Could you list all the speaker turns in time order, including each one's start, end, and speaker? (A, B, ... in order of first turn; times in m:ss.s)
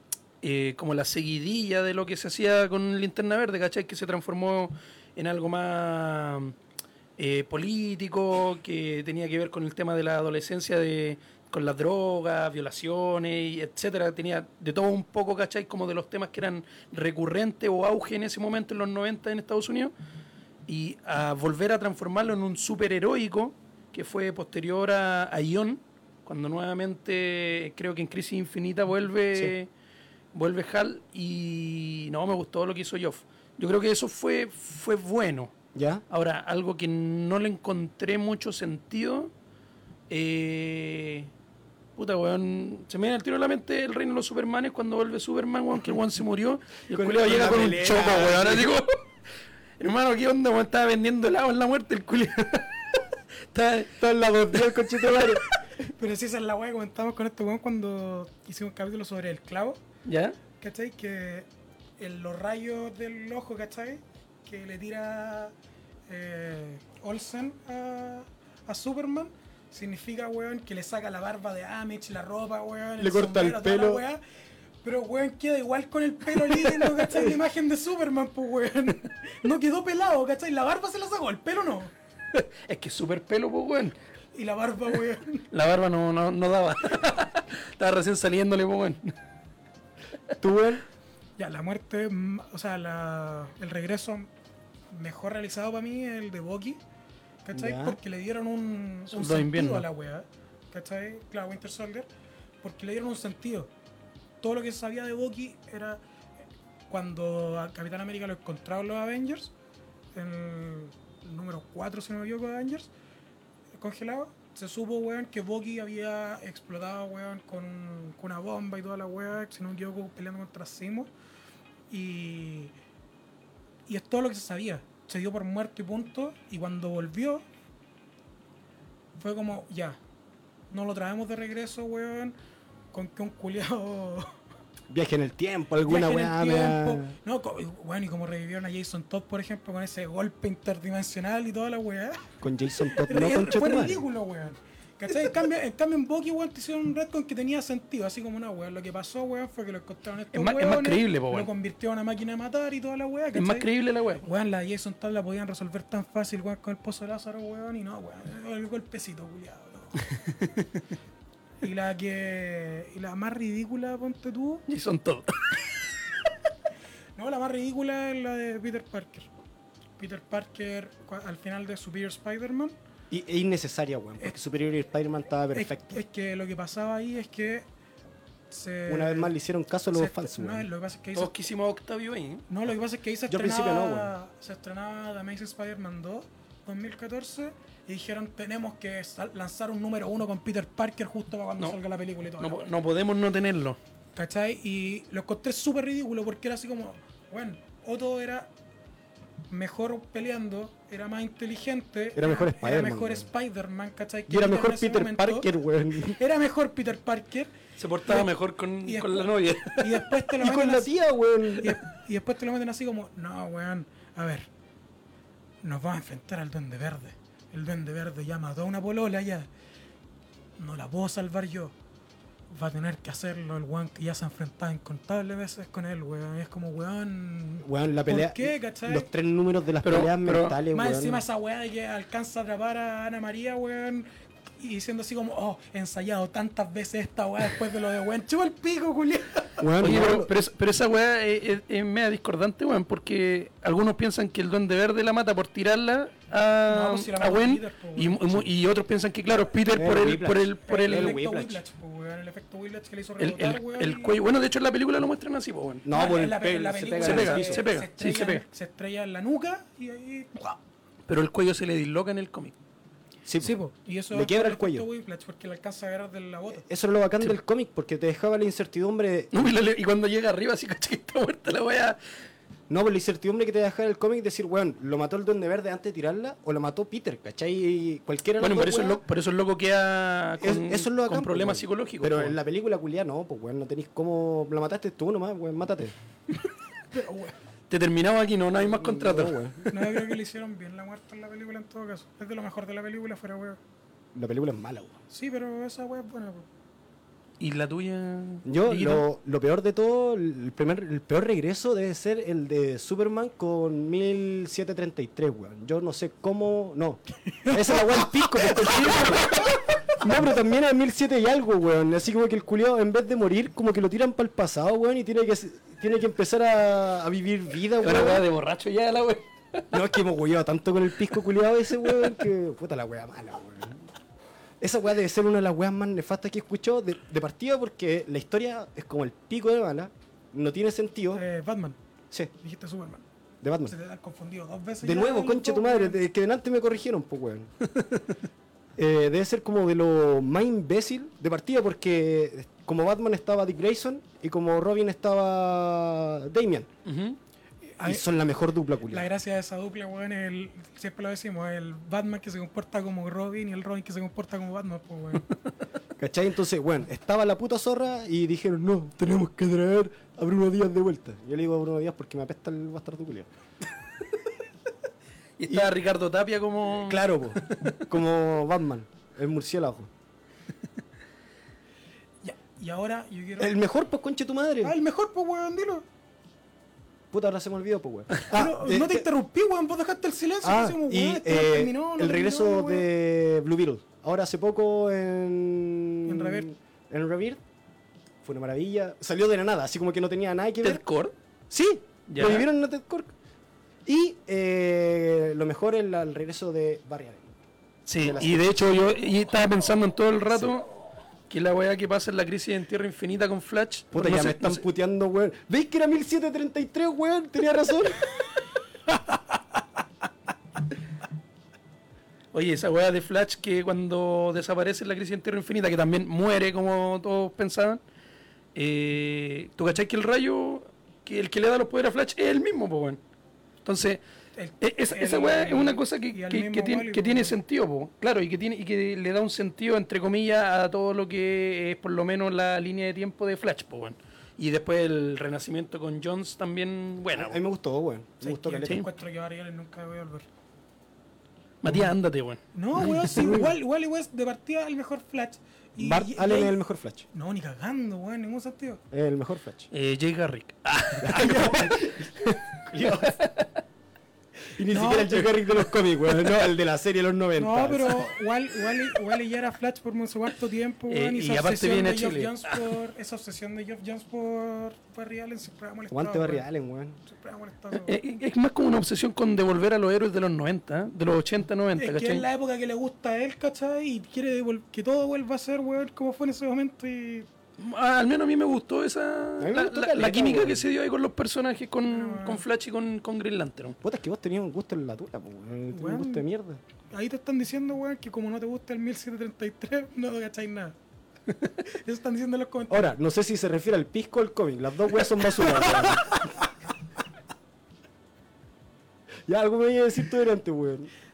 0:00.4-0:06.6 A
0:07.2-0:19.9 A
0:20.7-0:29.7 A
0:30.3-0:35.5 A
0:35.8-0:36.0 B
0:36.1-0:39.3 A
0:40.1-0:41.3 A
0:42.0-0:49.0 A
0:46.9-0:48.7 B
0:49.8-0:53.0 A
0:53.5-0:53.9 A
0:54.0-0:55.4 B
0:54.6-0:55.4 A
0:56.0-0:59.8 C
1:00.0-1:00.4 A
1:00.6-1:01.5 C
1:02.0-1:05.5 C
1:06.1-1:14.2 C
1:13.0-1:14.0 B
1:14.8-1:21.9 C
1:22.3-1:24.0 A
1:24.3-1:25.5 C
1:25.5-1:29.1 A
1:30.4-1:30.8 B
1:31.4-1:34.3 C
1:34.9-1:36.8 C
1:37.4-1:42.1 C
1:37.5-1:38.0 B
1:39.1-1:39.8 A
1:42.6-1:43.7 C
1:44.4-1:46.0 C
1:46.9-1:49.5 C
1:50.2-1:52.9 C
1:53.8-2:01.1 C
2:01.9-2:02.7 C
2:03.9-2:07.4 C
2:09.2-2:10.0 C
2:10.7-2:12.4 C
2:12.9-2:14.3 C
2:14.9-2:17.2 B
2:15.9-2:22.3 C
2:22.4-2:24.0 B
2:22.9-2:33.7 C
2:30.3-2:31.5 A
2:33.4-2:34.2 A
2:34.2-2:40.0 C
2:41.6-2:44.6 C
2:44.7-2:45.4 A
2:47.2-2:49.3 C
2:50.0-2:52.8 C
2:53.1-2:56.0 B
2:55.5-2:57.7 C
2:58.5-2:59.3 C
2:58.9-3:00.7 B
2:59.9-3:01.3 C
3:01.2-3:02.4 A
3:02.5-3:12.7 C
3:03.3-3:04.1 B
3:12.4-3:13.8 A
3:14.2-3:18.5 C
3:19.5-3:25.5 C
3:22.2-3:23.3 B
3:24.3-3:26.2 B
3:26.2-3:27.5 C
3:27.8-3:30.0 A
3:28.0-3:28.3 C
3:28.8-3:30.9 C
3:30.4-3:31.8 B
3:31.6-3:34.5 C
3:35.6-3:39.5 C
3:40.6-3:41.8 C
3:42.5-3:49.1 C
3:47.6-3:51.2 B
3:49.8-3:50.6 A
3:50.7-3:54.1 C
3:54.6-3:59.6 C
3:59.6-4:00.3 B
3:59.8-4:11.2 A
4:06.7-4:08.2 C
4:09.7-4:11.6 B
4:10.7-4:14.2 C
4:13.2-4:15.8 A
4:15.8-4:17.6 B
4:15.9-4:20.6 C
4:17.0-4:18.4 A
4:21.1-4:22.5 A
4:23.3-4:23.6 B
4:23.4-4:26.6 C
4:24.1-4:24.9 B
4:26.6-4:29.3 B
4:29.3-4:32.0 A
4:32.7-4:39.0 B
4:38.4-4:42.4 A
4:40.4-4:45.9 B
4:46.9-4:47.4 C
4:47.7-4:49.4 A
4:48.6-4:49.8 B
4:49.7-4:53.6 C
4:54.2-4:55.0 B
4:55.1-4:56.5 C
4:57.4-4:59.0 A
4:58.5-5:18.2 B
5:07.4-5:07.7 C
5:17.8-5:19.7 A
5:19.7-5:23.8 B
5:21.8-5:22.1 A
5:24.6-5:31.2 B
5:31.1-5:31.8 C
5:32.4-5:33.0 C
5:33.4-5:33.8 B
5:33.7-5:36.0 C
5:34.8-5:37.5 B
5:38.8-5:46.7 B
5:46.9-5:47.2 A
5:47.8-5:48.1 C
5:47.8-5:49.1 B
5:48.9-5:55.3 C
5:56.0-6:03.3 B
6:05.4-6:07.8 A
6:05.5-6:05.7 B
6:06.7-6:09.9 B
6:12.2-6:13.5 C
6:13.4-6:14.7 B
6:14.6-6:15.8 C
6:17.1-6:19.1 B
6:18.3-6:22.9 C
6:20.4-6:27.4 B
6:26.1-6:26.5 C
6:28.2-6:30.8 B
6:30.6-6:31.1 A
6:31.5-6:33.1 B
6:32.1-6:32.5 A
6:33.9-6:37.3 B
6:37.9-6:40.7 A
6:38.0-6:38.5 B
6:41.3-6:44.6 A
6:43.9-6:48.2 B
6:52.3-6:57.8 A
6:58.6-7:03.0 A
7:03.6-7:04.0 A
7:04.4-7:07.4 C
7:04.6-7:17.4 A
7:17.1-7:18.8 B
7:18.2-7:20.3 C
7:21.6-7:22.4 A
7:22.5-7:26.6 C
7:23.0-7:23.5 B
7:25.8-7:27.1 B
7:27.1-7:28.8 C
7:28.9-7:29.7 B
7:29.7-7:31.8 A
7:31.0-7:33.1 B
7:31.2-7:31.7 C
7:32.8-7:33.5 A
7:34.6-7:38.1 B
7:34.7-7:35.3 C
7:37.4-7:46.4 C
7:40.9-7:42.7 A
7:45.9-7:47.0 B
7:47.0-7:48.0 C
7:47.8-7:52.3 A
7:51.8-7:57.3 C
7:57.6-8:03.8 A
7:59.4-8:00.6 B
8:01.9-8:02.4 C
8:03.8-8:06.6 B
8:05.7-8:06.2 C
8:06.9-8:10.8 C
8:11.6-8:12.9 C
8:12.7-8:16.3 B
8:19.3-8:20.9 B